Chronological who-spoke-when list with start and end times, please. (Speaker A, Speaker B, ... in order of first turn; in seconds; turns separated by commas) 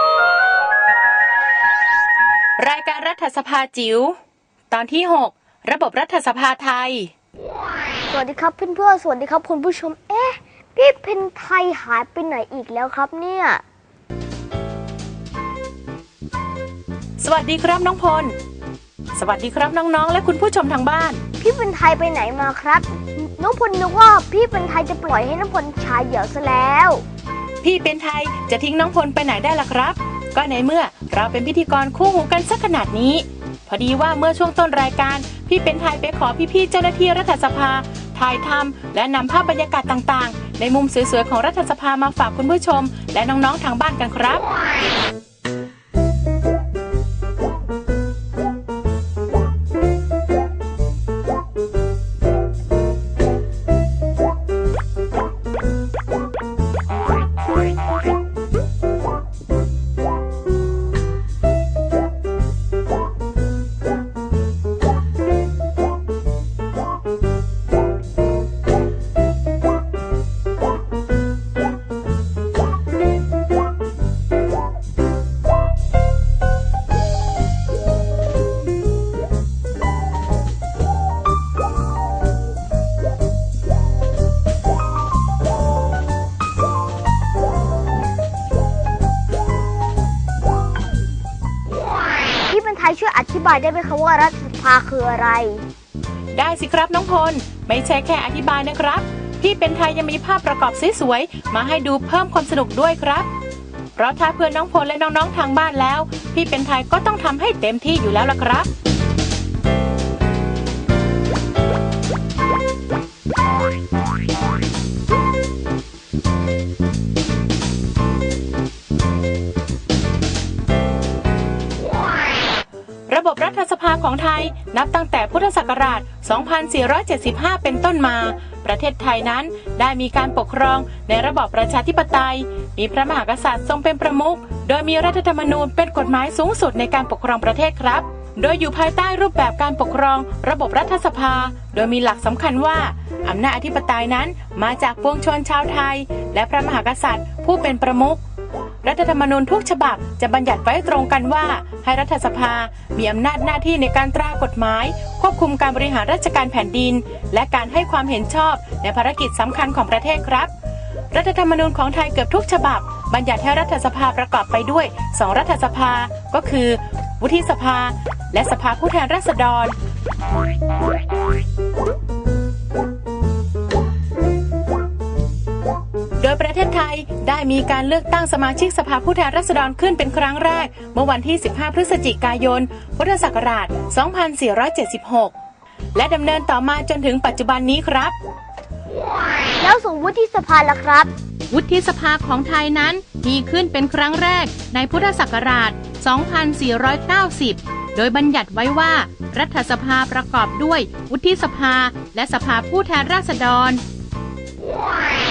Speaker A: 2.6-4.2, Speaker A: 4.7-7.1, Speaker B: 8.1-13.6, Speaker A: 17.2-18.4, Speaker A: 19.1-21.2, Speaker B: 21.4-27.0, Speaker A: 27.6-44.4, Speaker B: 92.5-95.6, Speaker A: 96.3-103.3, Speaker A: 104.0-108.7, Speaker A: 123.1-148.2, Speaker A: 148.8-160.5, Speaker A: 161.1-169.7, Speaker A: 176.2-185.3, Speaker A: 185.9-188.1, Speaker B: 189.6-191.1, Speaker A: 191.5-203.8